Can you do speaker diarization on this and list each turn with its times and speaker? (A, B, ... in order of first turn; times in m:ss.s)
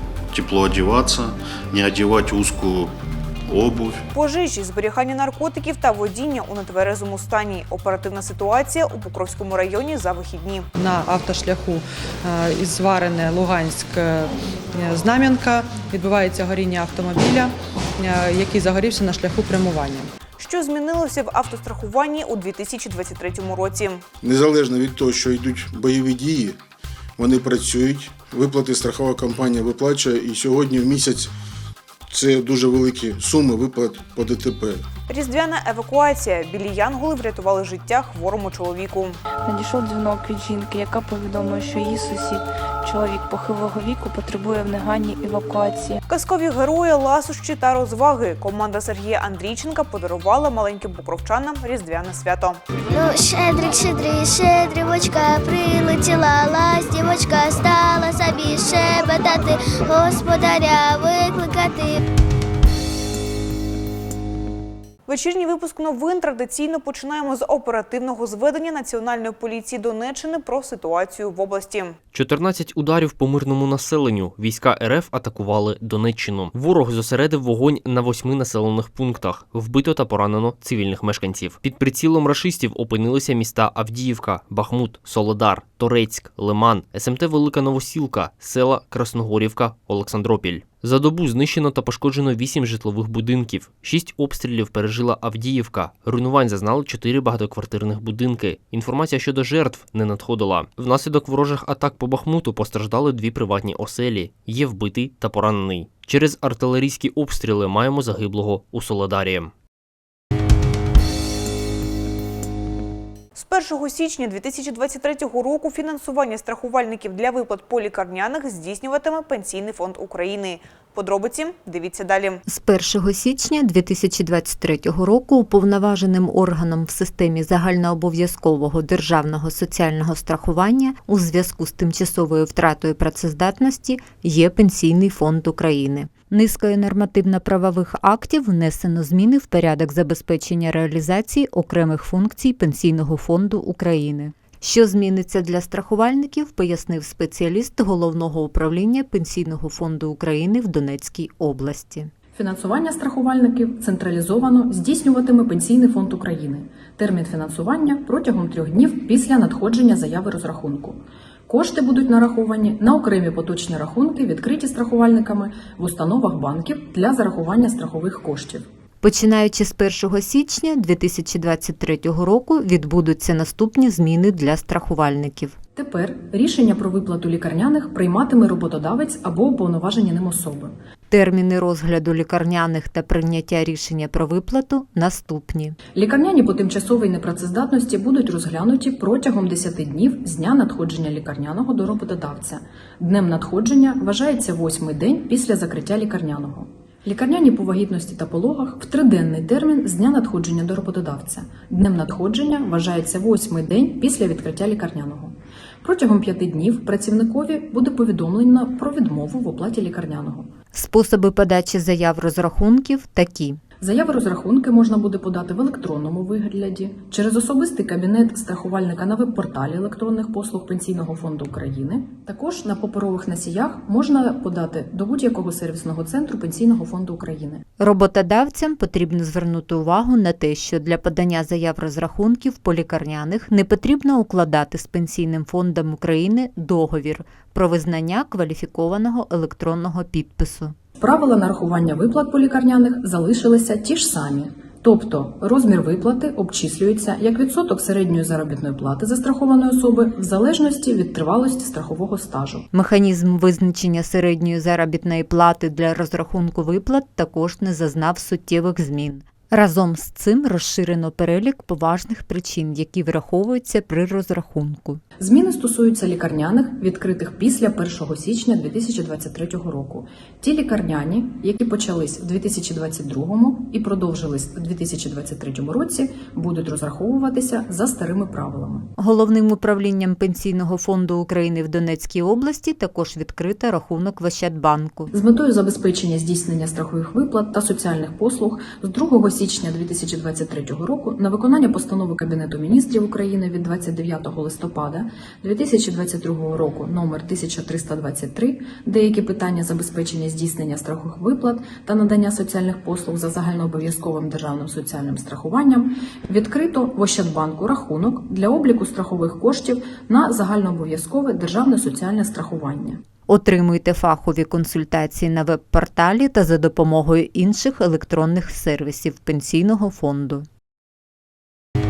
0:00.3-0:02.9 A
0:03.5-0:04.0 A
0:04.1-0:10.7 B
0:10.8-0:20.1 C
0:20.4-0:24.0 B
0:24.2-0:26.6 D
0:27.2-0:31.3 D
0:32.1-0:34.8 D
0:35.1-0:39.2 B
0:39.5-0:46.0 E
0:46.1-0:52.6 B
0:52.9-1:02.0 F
1:05.1-1:12.0 B
1:12.1-1:49.5 G
1:53.4-2:02.4 B
2:02.5-2:32.1 H
2:32.3-2:48.7 I
2:49.0-2:55.6 H
2:55.8-3:00.7 I
3:01.1-3:05.8 H
3:05.9-3:30.5 I
3:30.7-3:33.6 H
3:33.8-3:47.6 I
3:47.8-4:00.8 H
4:01.0-4:12.7 I
4:12.7-4:25.0 H
4:25.2-4:38.9 I
4:39.0-4:45.1 H
4:45.1-5:13.0 I
5:13.3-5:20.5 H